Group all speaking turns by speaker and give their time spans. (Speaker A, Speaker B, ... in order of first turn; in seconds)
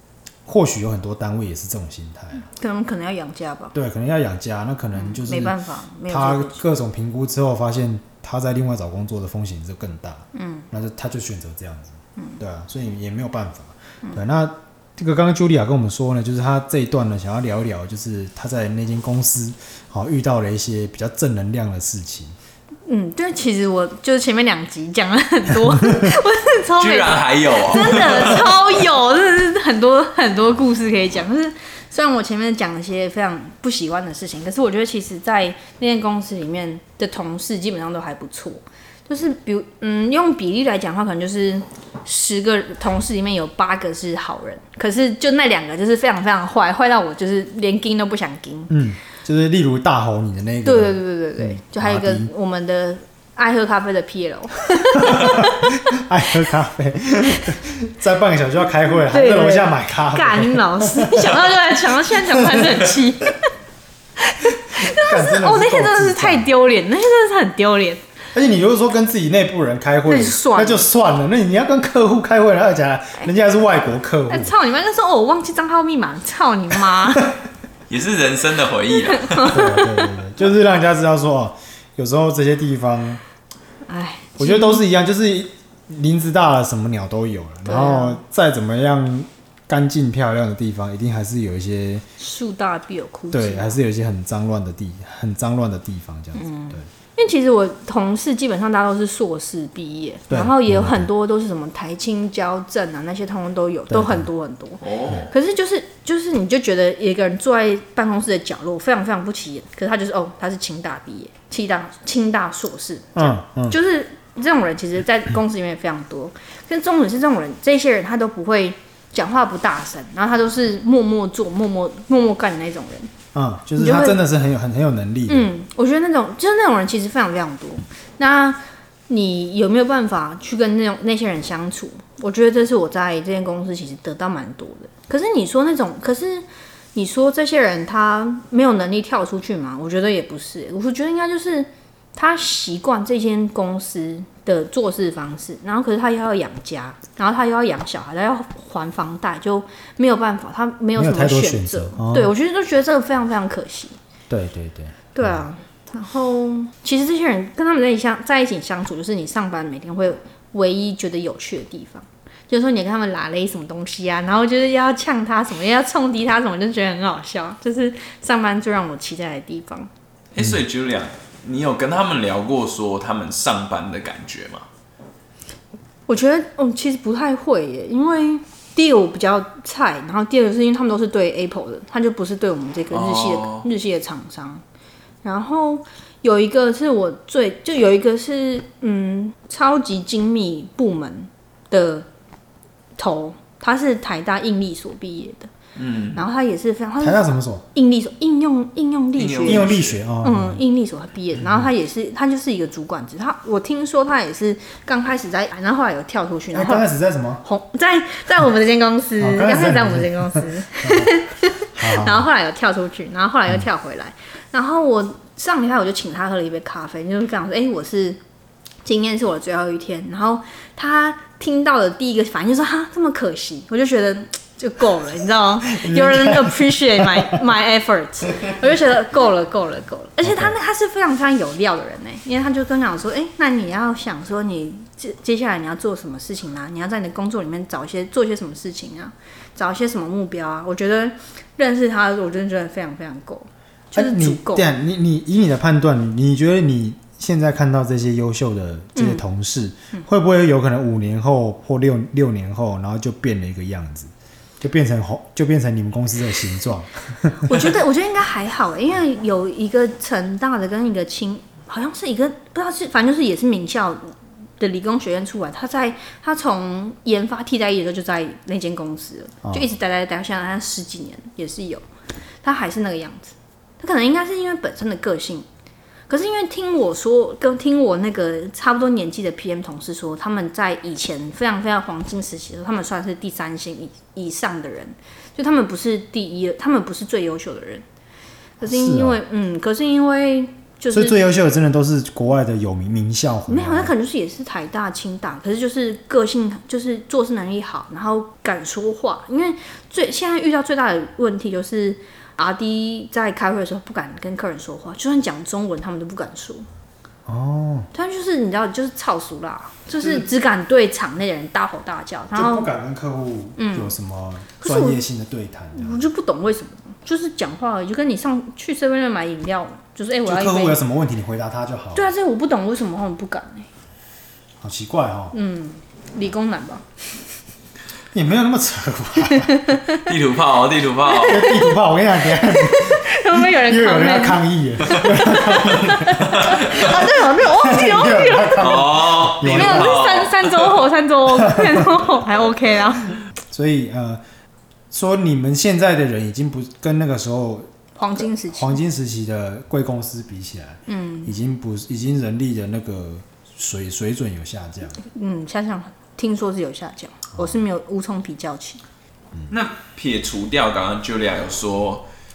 Speaker A: 0.5-2.5, 3.7-22.3, 25.6-26.1, 48.7-52.3, 54.9-62.8, 64.7-66.5, 68.3-74.5, 79.5-83.2, 84.4-92.0, 93.3-96.9, 100.3-101.1, 103.9-104.3, 113.1-113.8, 123.3-125.5, 150.9-152.3, 154.3-155.4, 197.0-197.7, 199.4-200.6, 201.4-201.7, 206.5-207.4, 209.2-211.2, 211.7-212.2, 225.7-227.4, 230.2-230.5, 243.9-257.7, 288.6-289.2, 290.9-293.9, 307.2-307.9, 310.0-310.2, 312.3-316.0, 320.2-322.1, 324.6-325.3, 328.1-329.8, 331.2-340.0, 341.4-341.9, 343.5-344.2, 344.9-347.7, 348.5-355.0, 357.4-357.6
Speaker B: 2.5-3.7, 4.9-6.6, 10.3-10.7, 22.9-48.7, 50.6-56.0, 59.0-63.4, 64.2-68.0, 70.0-70.8, 74.3-77.3, 79.1-80.0, 83.9-84.8, 87.6-88.2, 92.2-93.8, 96.3-123.1, 123.8-124.2, 125.3-153.9, 155.1-169.9, 176.1-184.6, 185.2-192.1, 193.0-195.5, 196.1-206.8, 207.4-218.2, 218.8-244.7, 248.9-249.2, 257.4-271.8, 272.4-275.4, 276.1-287.8, 288.6-291.2, 293.5-306.6, 307.9-312.7, 313.6-313.9, 314.6-315.0, 315.7-320.8, 321.9-323.7, 325.3-326.9, 329.3-330.0, 331.1-331.8, 332.3-338.8, 339.4-343.1, 347.9-348.8, 350.9-351.3, 355.0-358.8
Speaker C: 26.8-28.5, 77.9-79.6, 104.8-105.3, 170.3-174.7, 182.9-183.7, 195.8-196.2, 199.2-200.0, 330.0-331.4, 336.4-336.8, 338.6-340.8, 359.5-362.0